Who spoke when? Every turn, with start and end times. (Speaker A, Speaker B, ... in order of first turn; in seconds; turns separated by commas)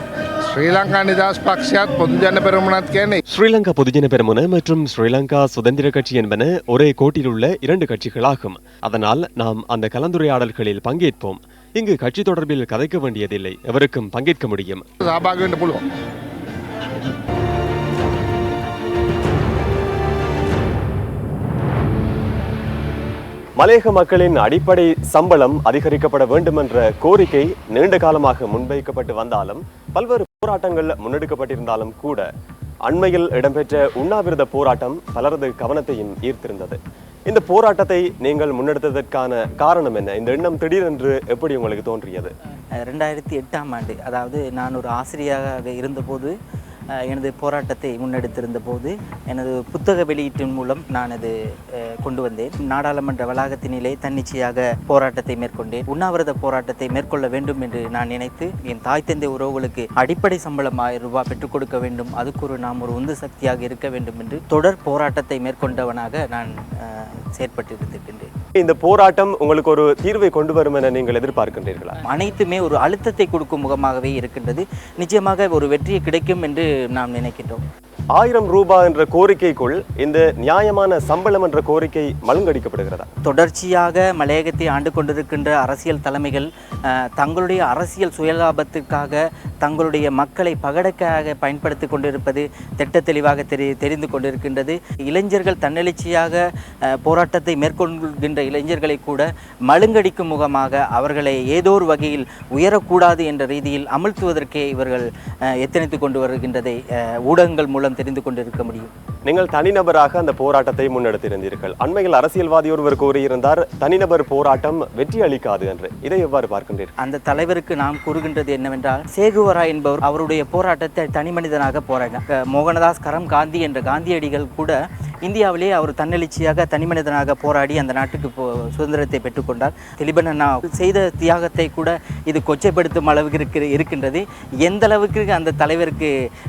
Speaker A: 0.5-3.2, Speaker B: 3.3-14.8, Speaker A: 15.0-15.8, Speaker B: 23.6-32.3, Speaker B: 32.9-42.3, Speaker C: 42.8-46.3, Speaker C: 47.0-68.3, Speaker B: 68.6-72.0, Speaker C: 72.1-77.6, Speaker B: 78.1-83.1, Speaker C: 83.2-96.4, Speaker C: 97.0-105.1, Speaker C: 105.6-108.9, Speaker B: 109.3-116.9, Speaker C: 117.0-136.1